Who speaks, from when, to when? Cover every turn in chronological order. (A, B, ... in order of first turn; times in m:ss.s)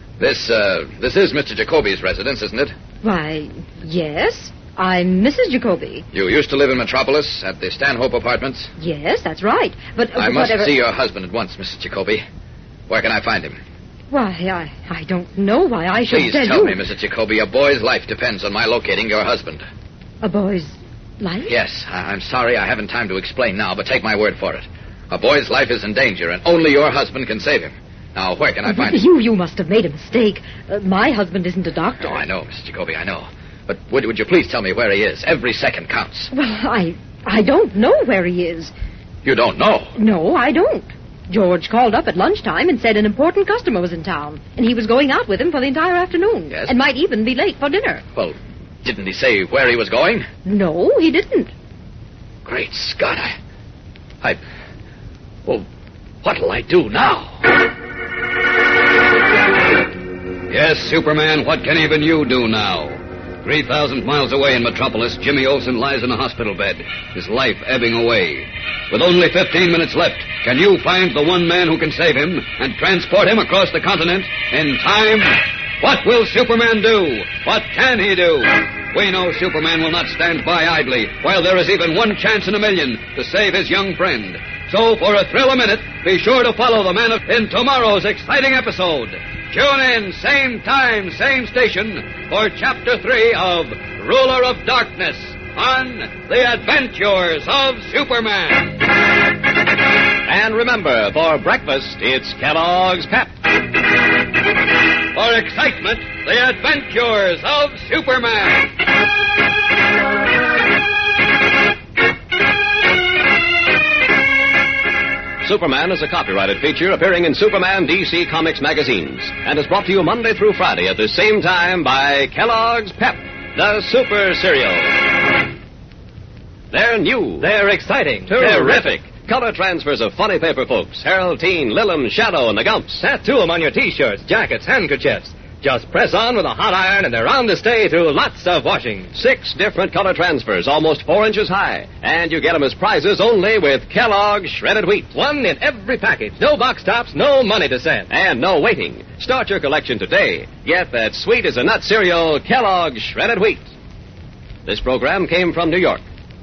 0:00.2-0:02.7 A
0:03.0-0:06.0 B
0:06.1-0:08.7 A
0:08.8-0:10.8 B
0:10.1-0:12.2 A
0:12.9-0:13.6 A
0:14.1-0:16.8 B
0:16.0-0:19.6 A
0:20.2-0:21.6 B
0:21.4-0:29.0 A
0:28.6-0:32.2 B
0:32.0-0:36.3 A
0:36.3-0:38.7 B
0:39.2-0:40.0 A
0:40.0-0:48.0 B
0:46.5-0:46.8 A
0:48.1-0:50.3 A
0:50.4-0:51.5 B
0:52.4-0:53.3 A
0:56.2-0:57.4 A
1:00.5-1:38.8 C
1:40.3-1:43.3 D
1:45.1-1:48.7 C
1:55.4-2:05.1 D
2:06.7-2:07.5 D
2:07.4-2:08.9 E
2:08.3-2:13.0 D
2:13.0-2:19.1 E
2:19.1-2:25.1 D
2:25.1-2:28.1 E
2:28.1-2:33.7 D
2:34.6-2:36.0 D